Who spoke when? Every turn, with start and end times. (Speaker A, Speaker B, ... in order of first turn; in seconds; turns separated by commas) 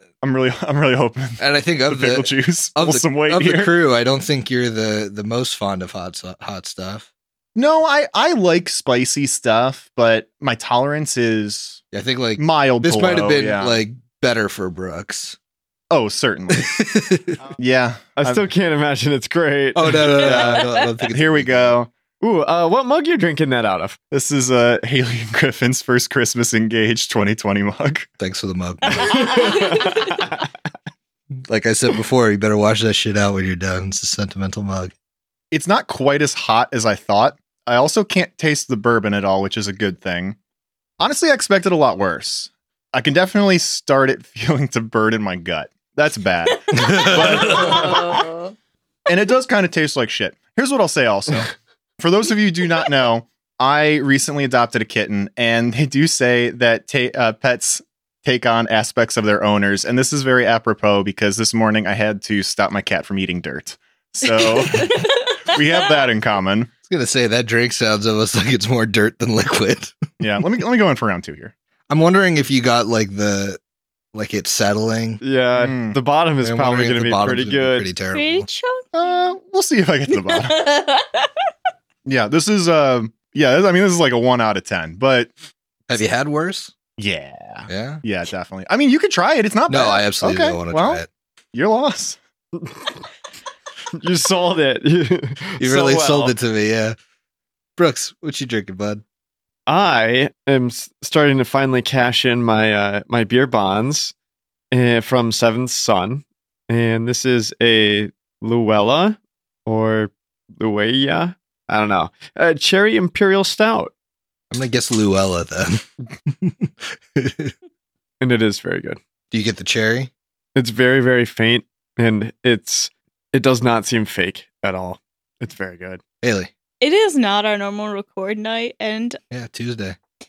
Speaker A: 0.2-3.7, Speaker B: 1.4-7.1, Speaker A: 7.6-11.8, Speaker B: 11.9-15.4, Speaker A: 12.4-13.8, Speaker A: 15.9-16.7, Speaker B: 16.6-17.4, Speaker A: 17.6-18.5, Speaker C: 18.2-20.6, Speaker B: 19.8-21.7, Speaker A: 20.2-21.9, Speaker C: 22.2-24.0, Speaker A: 24.1-28.1, Speaker B: 28.2-30.1, Speaker A: 29.0-29.7, Speaker C: 29.5-30.2, Speaker B: 31.5-34.9, Speaker A: 35.5-40.4, Speaker A: 41.0-48.2, Speaker B: 46.9-47.4, Speaker A: 49.1-66.7, Speaker B: 66.9-70.0, Speaker A: 70.2-71.5, Speaker B: 71.9-73.6, Speaker B: 74.1-75.2, Speaker C: 75.2-77.9, Speaker A: 75.5-76.0, Speaker B: 76.4-78.5, Speaker D: 78.1-78.8, Speaker A: 78.9-80.6, Speaker D: 80.6-81.2, Speaker A: 82.0-85.3, Speaker B: 85.9-86.7, Speaker A: 87.0-91.0, Speaker B: 87.7-88.0, Speaker B: 89.7-91.1, Speaker A: 91.5-92.2, Speaker C: 92.6-92.9, Speaker C: 94.0-96.3, Speaker B: 95.6-97.0, Speaker B: 97.8-99.0, Speaker C: 99.7-104.1, Speaker C: 104.7-113.9, Speaker B: 114.5-117.5, Speaker C: 118.2-119.0, Speaker B: 119.3-120.1, Speaker C: 120.6-126.0, Speaker B: 126.2-126.5, Speaker D: 126.8-129.2, Speaker B: 129.3-130.0